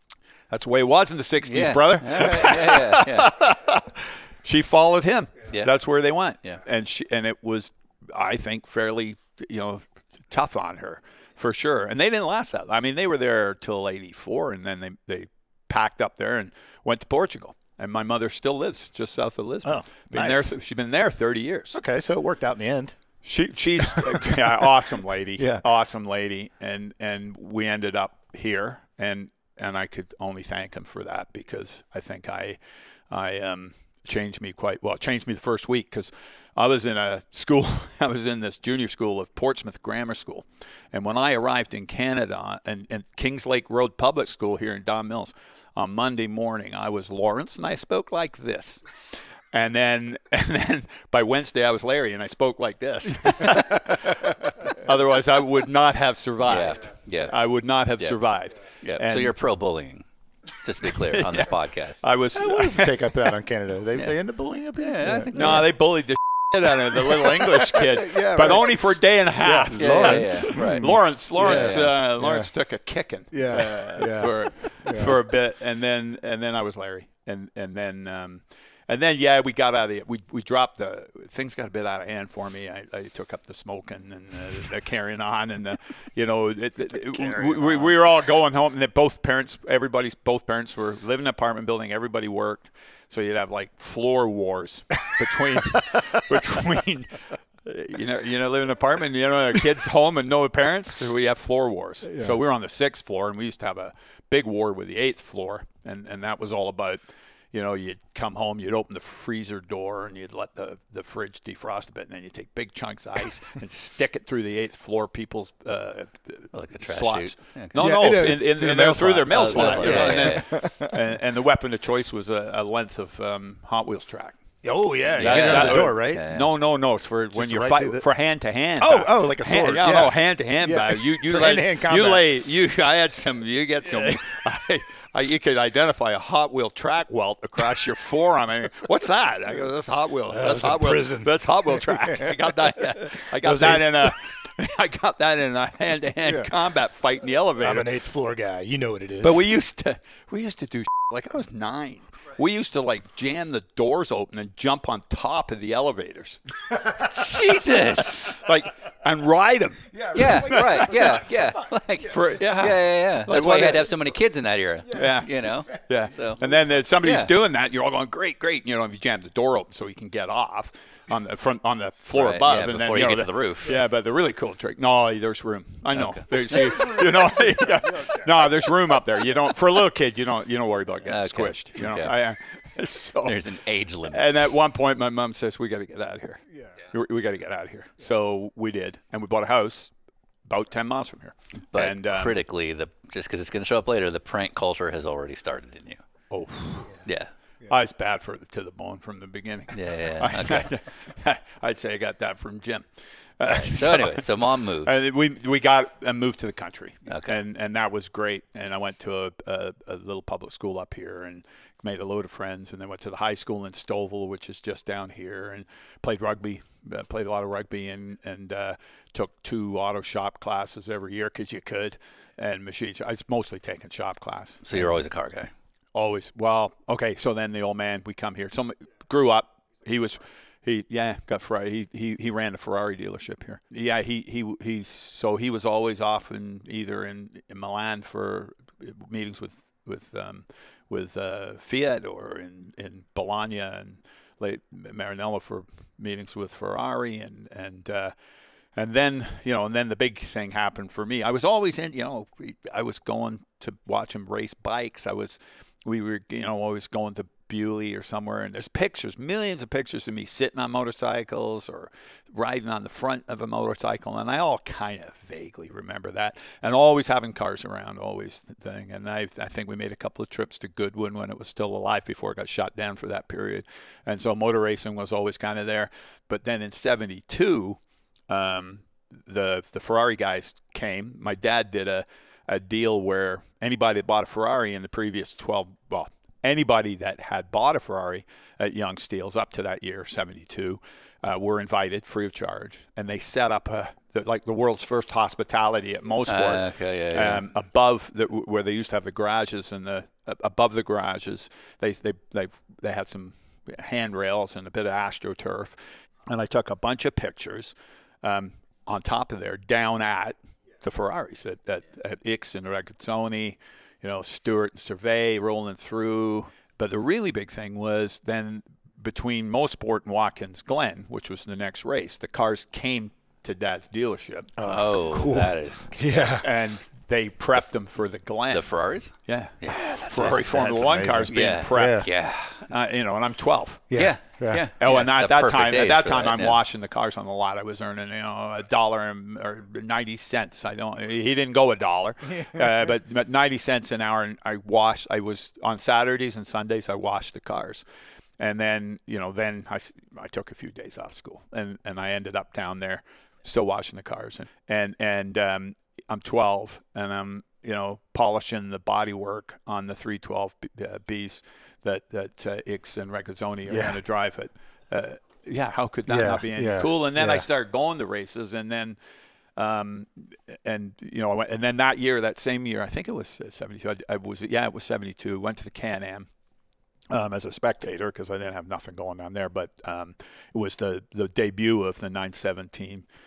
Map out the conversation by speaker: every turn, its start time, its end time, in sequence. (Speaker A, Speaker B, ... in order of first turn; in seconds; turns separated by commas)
Speaker A: 0.5-21.8, Speaker B: 1.4-3.5, Speaker C: 19.6-20.6, Speaker C: 21.7-22.9, Speaker A: 23.2-59.4, Speaker C: 23.9-24.6, Speaker C: 25.4-25.6, Speaker B: 56.5-57.4, Speaker B: 58.8-62.1, Speaker A: 60.8-63.3, Speaker C: 62.4-65.7, Speaker B: 64.8-65.8, Speaker A: 65.3-124.4, Speaker C: 67.0-68.7, Speaker C: 69.4-72.5, Speaker B: 69.8-72.0, Speaker C: 73.3-75.2, Speaker C: 87.3-87.8, Speaker C: 102.0-102.4, Speaker B: 116.5-117.8, Speaker C: 117.8-121.0, Speaker B: 119.3-120.5, Speaker C: 124.6-126.2, Speaker A: 125.1-147.9, Speaker B: 125.2-126.5, Speaker C: 127.3-128.1, Speaker C: 128.8-132.2, Speaker C: 140.3-142.3, Speaker C: 143.2-144.1, Speaker C: 147.6-149.5, Speaker A: 149.2-156.4, Speaker B: 157.0-158.4, Speaker A: 158.2-161.2, Speaker B: 160.1-166.4, Speaker A: 162.1-164.0, Speaker A: 164.9-183.5, Speaker B: 167.0-167.3, Speaker B: 172.1-173.8, Speaker B: 175.9-176.6, Speaker C: 177.9-178.2, Speaker B: 181.1-182.3, Speaker B: 183.2-184.2, Speaker A: 184.1-189.9, Speaker A: 190.4-192.4, Speaker B: 191.7-196.1, Speaker A: 196.3-197.0, Speaker B: 197.1-197.3, Speaker A: 197.7-202.9, Speaker B: 199.7-200.7, Speaker A: 203.4-224.9, Speaker B: 203.5-205.0, Speaker B: 207.1-207.4, Speaker B: 224.7-225.5, Speaker A: 225.9-248.1, Speaker A: 248.8-324.6, Speaker B: 296.3-297.4, Speaker C: 324.6-326.5, Speaker B: 324.7-326.2, Speaker A: 326.4-334.2, Speaker B: 328.5-330.7, Speaker C: 330.2-332.1, Speaker B: 331.3-332.7, Speaker C: 333.9-334.6, Speaker B: 333.9-336.6, Speaker A: 334.8-347.8, Speaker A: 348.4-369.0, Speaker C: 363.7-364.0, Speaker C: 366.1-367.5, Speaker A: 369.6-376.3, Speaker A: 377.1-383.1